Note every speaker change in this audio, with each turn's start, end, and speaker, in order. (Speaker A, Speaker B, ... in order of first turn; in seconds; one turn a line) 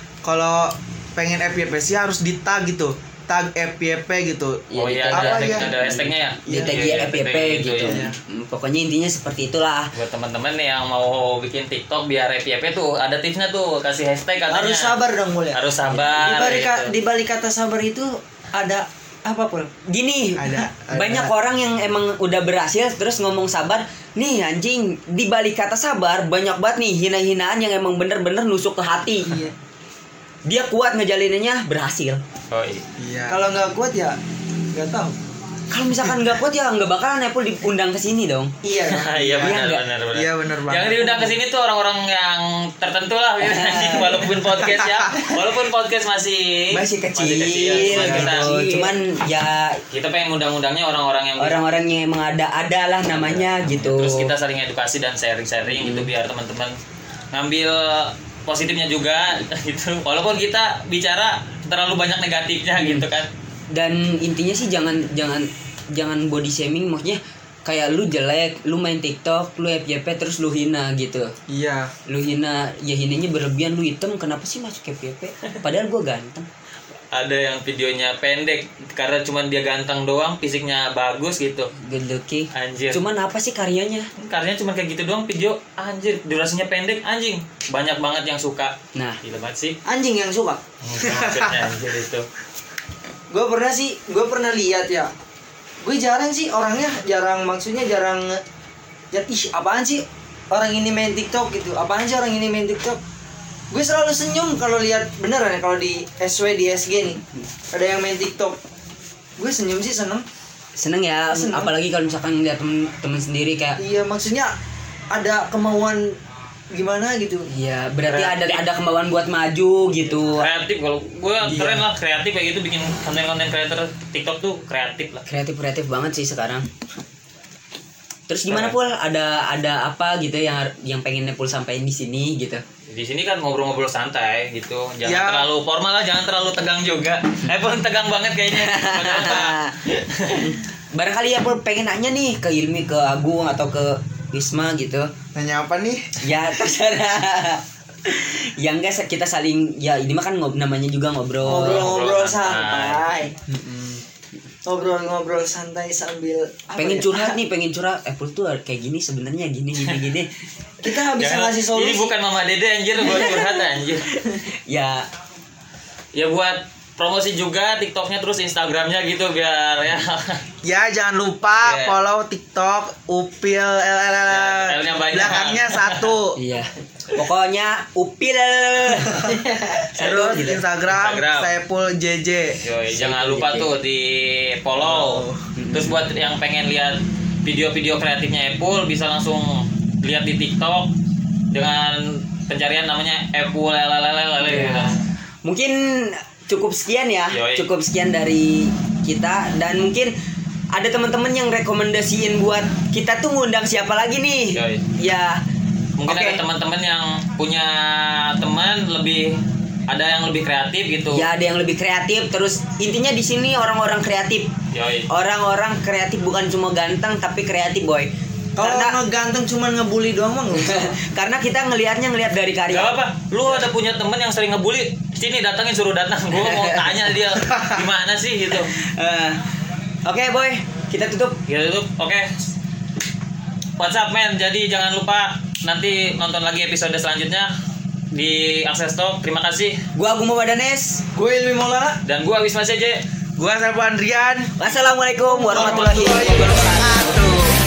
Speaker A: 0.2-5.7
Speaker B: 4.7-9.9
Speaker C: 4.8-8.1
Speaker A: 6.5-6.8
Speaker A: 7.8-8.2
Speaker C: 9.9-15.0
Speaker D: 14.5-19.7
Speaker C: 15.5-16.9
Speaker B: 19.9-29.4
Speaker A: 20.4-21.3
Speaker B: 30.4-32.2
Speaker C: 32.5-32.8
Speaker A: 33.0-33.4
Speaker D: 33.3-34.2
Speaker D: 34.7-35.1
Speaker B: 35.7-38.5
Speaker D: 38.6-39.5
Speaker C: 38.8-48.5
Speaker B: 39.4-39.8
Speaker A: 40.1-41.1
Speaker B: 43.4-44.4
Speaker B: 46.7-49.8
Speaker D: 47.7-48.9
Speaker A: 47.9-48.4
Speaker C: 49.9-51.7
Speaker B: 51.4-54.3
Speaker C: 53.1-56.8
Speaker B: 55.7-56.1
Speaker C: 57.3-63.3
Speaker B: 62.8-63.0
Speaker B: 63.7-71.3
Speaker A: 71.5-71.9
Speaker B: 72.1-76.5
Speaker C: 77.1-81.7
Speaker B: 81.7-84.1
Speaker C: 82.5-83.0
Speaker C: 84.2-89.8
Speaker D: 89.8-90.6
Speaker C: 90.8-92.3
Speaker A: 91.0-91.6
Speaker D: 93.3-95.1
Speaker D: 95.8-98.4
Speaker D: 99.1-103.0
Speaker D: 103.7-107.2
Speaker D: 107.7-108.6
Speaker D: 109.4-110.2
Speaker B: 110.8-113.8
Speaker D: 111.3-111.7
Speaker D: 113.8-114.5
Speaker D: 115.1-116.2
Speaker D: 116.7-117.5
Speaker B: 117.5-120.5
Speaker C: 118.1-118.6
Speaker C: 120.0-125.3
Speaker B: 121.5-121.8
Speaker A: 121.5-121.8
Speaker B: 125.3-126.7
Speaker B: 128.3-132.6
Speaker C: 128.5-128.7
Speaker C: 132.9-140.6
Speaker A: 135.0-135.5
Speaker B: 138.6-139.8
Speaker B: 140.3-145.1
Speaker A: 145.3-146.2
Speaker B: 146.2-151.9
Speaker C: 151.4-153.0
Speaker D: 151.4-153.3
Speaker A: 153.5-154.0
Speaker D: 154.7-157.4
Speaker B: 156.8-160.3
Speaker D: 160.8-162.1
Speaker C: 161.0-164.1
Speaker B: 163.1-163.4
Speaker B: 164.5-165.1
Speaker C: 166.1-170.4
Speaker A: 170.6-176.4
Speaker C: 171.6-171.9
Speaker C: 174.3-176.1
Speaker B: 176.3-180.6
Speaker D: 179.4-179.8
Speaker A: 180.0-182.6
Speaker C: 180.9-181.5
Speaker C: 182.6-190.9
Speaker B: 182.9-183.7
Speaker A: 184.8-185.4
Speaker B: 185.5-185.9
Speaker C: 191.5-195.0
Speaker B: 194.4-200.1
Speaker C: 197.3-197.7
Speaker B: 200.7-205.4
Speaker C: 204.5-204.8
Speaker C: 206.0-211.3
Speaker B: 206.1-206.4
Speaker B: 211.1-214.5
Speaker C: 214.7-215.1
Speaker B: 215.1-219.0
Speaker D: 218.6-221.0
Speaker B: 220.5-223.0
Speaker C: 222.7-228.7
Speaker B: 226.3-227.1
Speaker A: 227.4-227.8
Speaker B: 228.7-229.4
Speaker B: 230.1-231.4
Speaker C: 231.5-232.5
Speaker C: 233.8-237.5
Speaker C: 238.1-239.8
Speaker B: 239.9-241.0
Speaker D: 241.1-242.0
Speaker C: 242.0-243.0
Speaker A: 243.4-244.6
Speaker B: 244.6-247.2
Speaker D: 245.3-247.1
Speaker A: 245.4-247.6